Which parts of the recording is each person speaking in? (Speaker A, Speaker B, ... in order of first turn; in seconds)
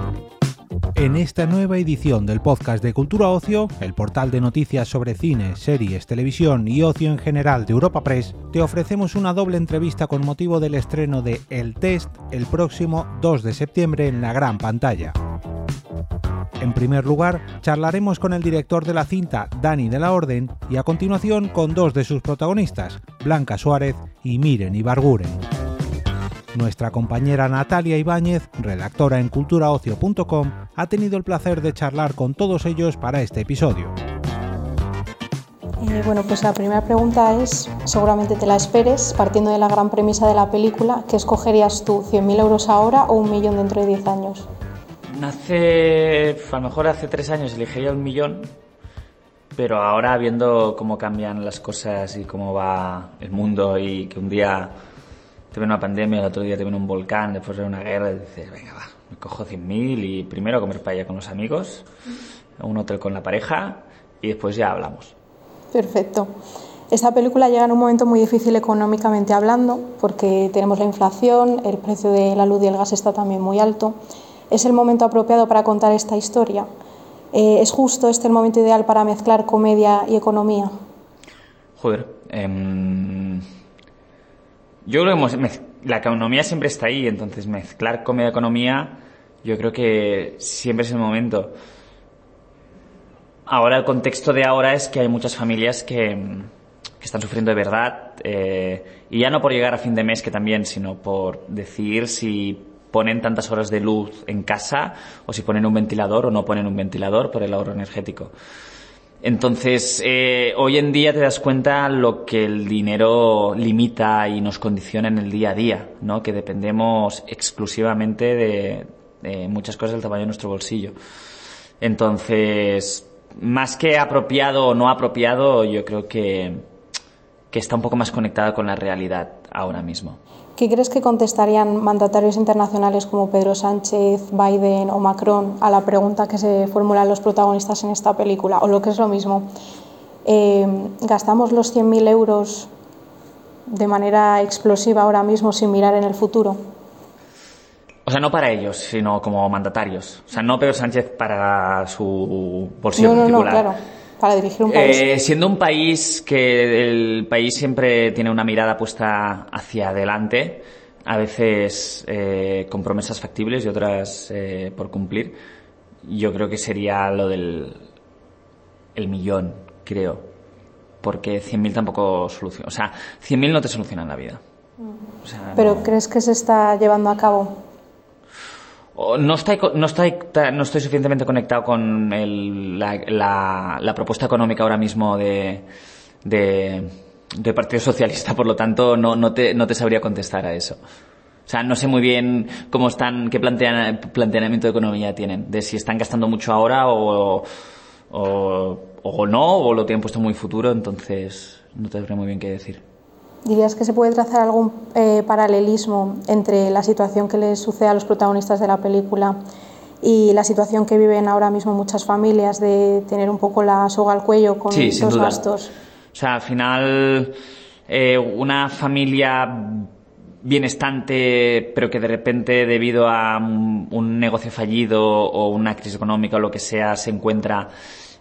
Speaker A: 0.9-15.1, 16.6-25.4, 26.5-33.9
Speaker B: 35.8-44.5, 65.7-66.3, 66.9-74.0, 74.5-76.7, 77.3-80.7, 130.6-139.5, 140.2-142.7, 143.7-146.6, 153.0-155.0, 175.5-177.5, 203.4-209.3, 210.0-215.7
Speaker C: 45.1-48.5, 49.5-54.7, 55.5-61.9, 62.6-65.1, 81.8-83.4, 84.8-91.5, 93.5-108.3, 109.2-121.0, 121.8-126.6, 127.5-130.2, 148.1-153.7, 154.7-165.4, 166.0-167.8, 168.9-170.3, 171.0-174.4, 175.2-175.9, 178.9-185.7, 186.2-190.8, 191.5-197.4, 198.1-202.8, 214.7-215.4, 216.1-217.3, 217.9-219.9, 220.4-227.7